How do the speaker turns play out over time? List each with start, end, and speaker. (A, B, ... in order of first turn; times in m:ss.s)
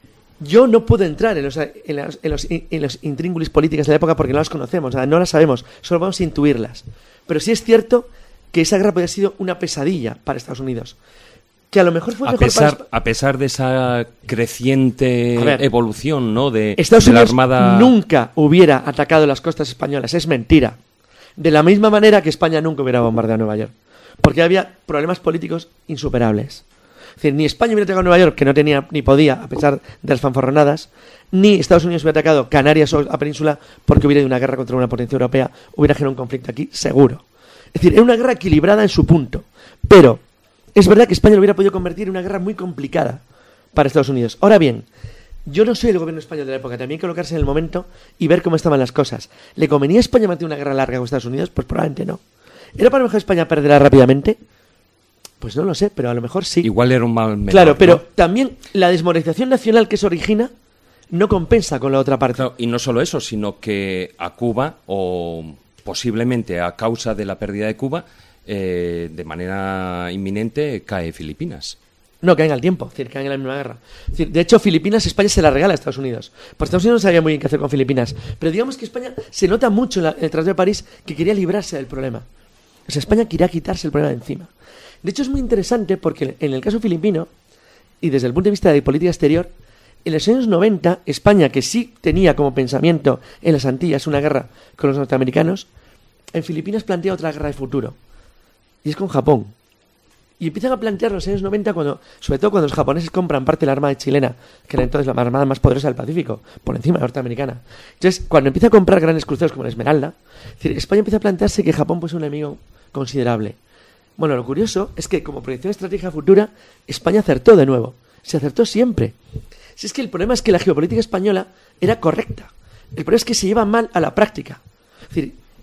0:00.4-0:11.0 A
0:11.7-0:12.8 A
0:12.2-0:17.9 B
0:15.4-0:15.6 A
0:16.8-0:20.8 A
0:21.4-0:26.6 A
0:27.2-0:37.2 A
0:37.7-0:40.2 A
0:40.8-0:43.2 A
0:43.7-0:44.9 A
0:45.5-0:52.2 A
0:52.8-0:54.4 A
0:55.4-0:56.7 A
0:56.6-0:58.0 B
0:57.5-1:00.5 A
1:01.1-1:02.4 A
1:02.3-1:11.8 B
1:12.2-1:22.2 A
1:22.9-1:24.5 A
1:25.0-1:27.3 A
1:28.0-1:29.5 A
1:30.0-1:35.7 A
1:36.3-1:38.0 A
1:38.8-1:39.5 A
1:40.4-1:53.6 A
1:54.2-1:59.2 A
1:59.8-2:04.6 A
2:05.1-2:05.4 A